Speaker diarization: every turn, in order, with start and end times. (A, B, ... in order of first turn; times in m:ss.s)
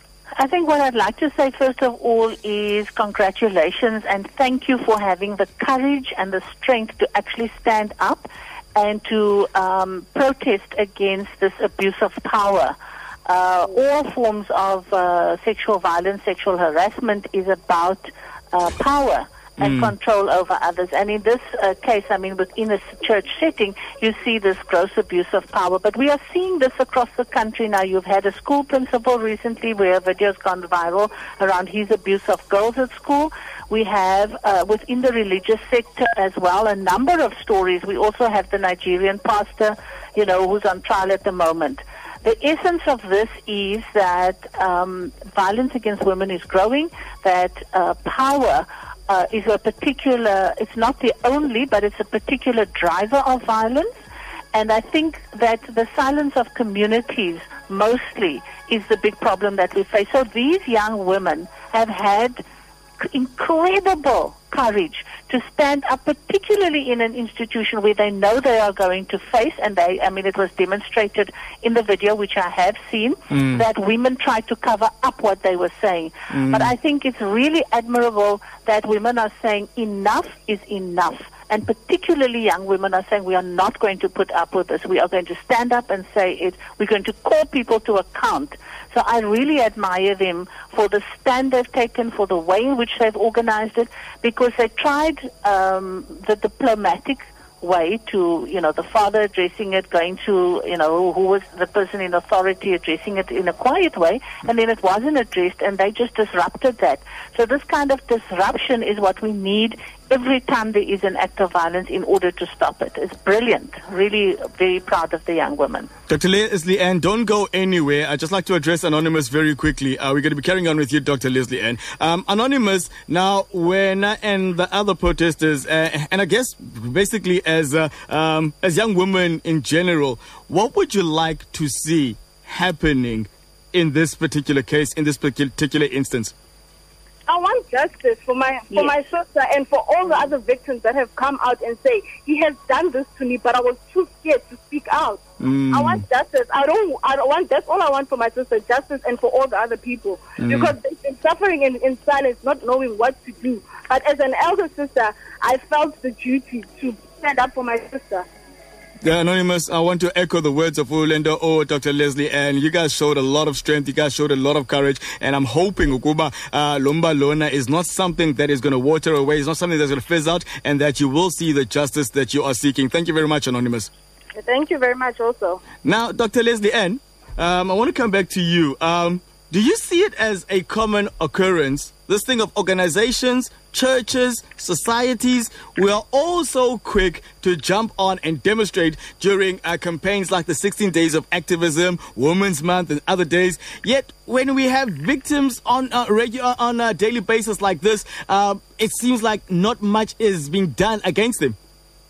0:00.4-0:53.9 A
0:19.6-0:19.9 B
0:54.5-1:02.4 A
1:03.0-1:55.9 A
1:13.3-1:13.6 B
1:16.3-1:16.7 B
1:56.1-2:16.3 B
2:17.3-2:38.2 C
2:25.4-2:26.0 B
2:30.4-2:30.7 B
2:39.0-2:53.9 B
2:54.4-2:55.6 C
2:55.8-3:21.5 B